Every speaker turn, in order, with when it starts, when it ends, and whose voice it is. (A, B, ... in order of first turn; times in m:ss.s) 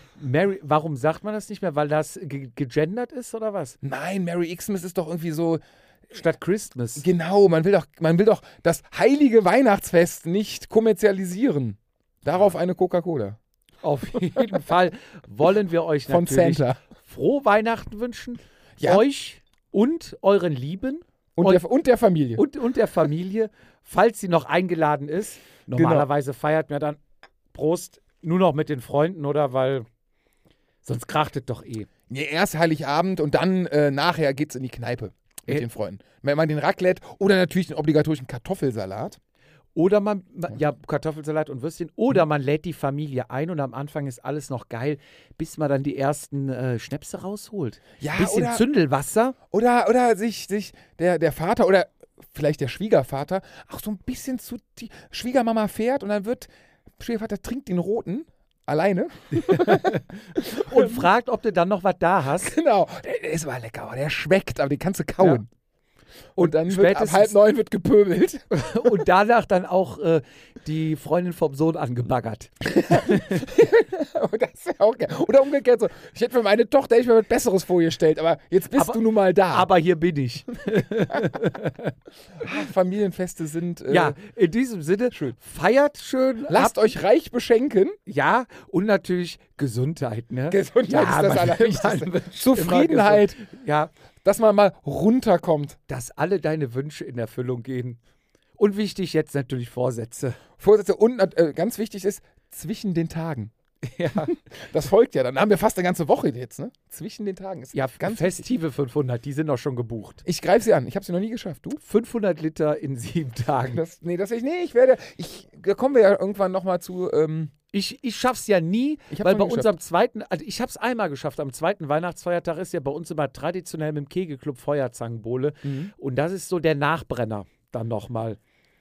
0:00.2-0:03.8 A
0:03.8-0:05.6 B
0:06.1-0:07.1 A
0:07.0-0:13.4 B
0:13.8-0:21.6 A
0:16.1-0:16.8 B
0:18.8-0:19.0 B
0:21.4-0:22.4 B
0:22.4-0:27.0 A
0:25.7-0:26.1 B
0:27.5-0:29.8 A
0:30.8-0:31.9 A
0:32.1-0:39.2 B
0:39.8-0:49.3 A
0:48.0-0:48.6 B
0:49.5-1:01.1 B
0:59.4-1:02.5 A
1:02.4-1:05.5 B
1:06.4-1:07.4 A
1:06.4-1:09.0 B
1:08.5-1:13.4 A
1:12.7-1:19.7 B
1:18.7-1:21.9 A
1:22.4-1:24.2 B
1:23.9-1:26.9 A
1:26.5-1:28.0 B
1:28.1-1:33.9 A
1:30.5-1:33.4 B
1:34.2-1:35.8 B
1:35.9-1:38.0 A
1:38.6-1:40.4 A
1:40.6-1:43.5 B
1:43.8-1:44.3 A
1:44.2-1:48.5 B
1:47.7-1:50.2 A
1:50.2-1:51.8 B
1:51.8-1:53.8 A
1:53.6-1:57.5 B
1:57.7-2:08.4 A
1:59.1-1:59.7 B
2:05.6-2:05.9 B